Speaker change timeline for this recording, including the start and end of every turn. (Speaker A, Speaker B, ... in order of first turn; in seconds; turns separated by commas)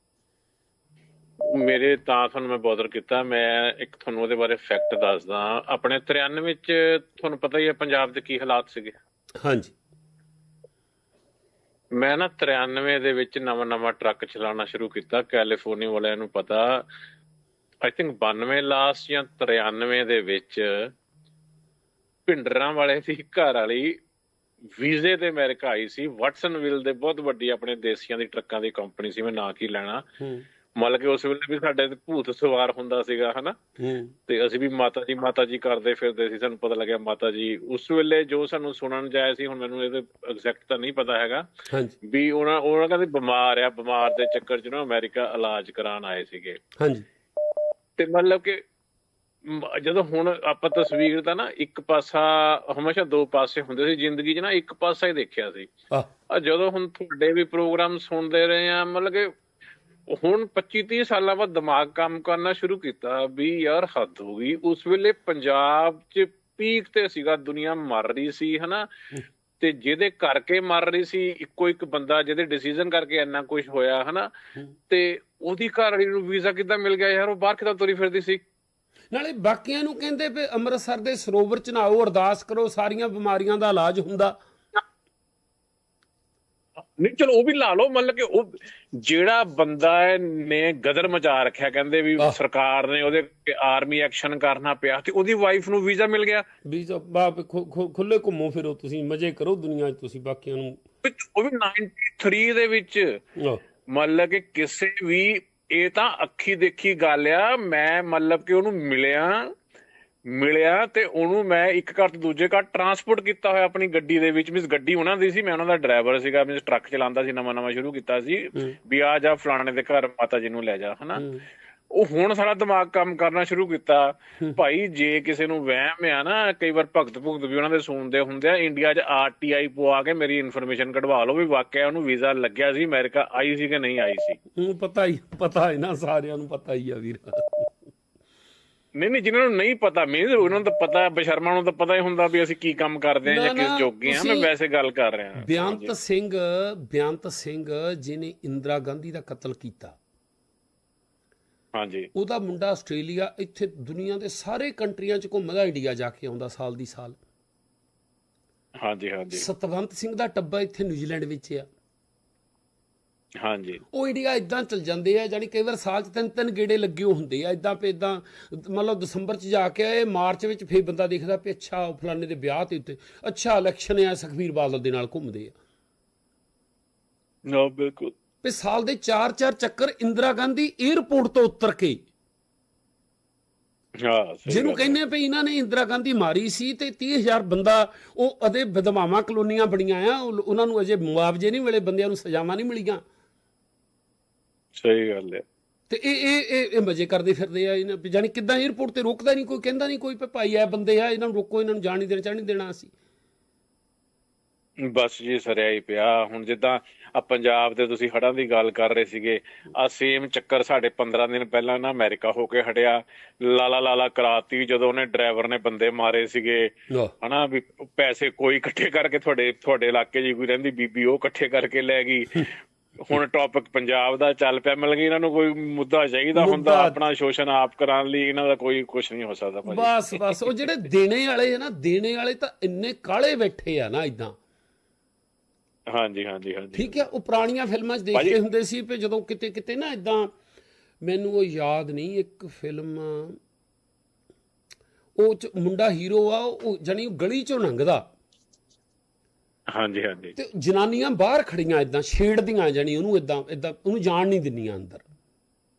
Speaker A: 1.4-8.9, Speaker B: 9.4-9.7, Speaker A: 11.9-16.8, Speaker A: 17.8-20.9, Speaker A: 22.3-24.0, Speaker A: 24.8-30.0, Speaker B: 30.2-30.4, Speaker A: 30.7-33.6, Speaker B: 33.8-34.1, Speaker A: 34.3-41.5, Speaker B: 41.7-41.9, Speaker A: 42.0-46.6, Speaker B: 46.8-47.0, Speaker A: 48.0-48.6, Speaker A: 49.5-55.7, Speaker A: 56.3-59.3, Speaker A: 60.1-68.9, Speaker A: 69.6-74.3, Speaker A: 74.9-78.4, Speaker B: 79.1-84.4, Speaker A: 87.0-96.4, Speaker B: 96.6-100.8, Speaker A: 101.0-103.2, Speaker A: 103.9-109.5, Speaker A: 110.3-121.2, Speaker B: 121.2-121.4, Speaker A: 121.9-134.4, Speaker B: 134.6-137.7, Speaker A: 139.0-145.9, Speaker B: 143.2-144.5, Speaker B: 145.4-150.0, Speaker A: 151.7-152.1, Speaker B: 152.1-157.2, Speaker A: 158.8-159.5, Speaker B: 159.3-161.7, Speaker A: 163.4-163.8, Speaker B: 163.9-175.5, Speaker A: 177.5-178.1, Speaker B: 178.4-182.0, Speaker A: 184.0-185.0, Speaker B: 184.5-193.0, Speaker A: 194.7-195.4, Speaker B: 195.9-202.9, Speaker A: 204.8-230.6, Speaker B: 226.3-227.0, Speaker B: 229.7-234.3, Speaker A: 235.9-237.0, Speaker B: 236.7-240.3, Speaker B: 241.0-243.4, Speaker B: 245.2-248.0, Speaker A: 249.7-250.3, Speaker B: 250.4-255.0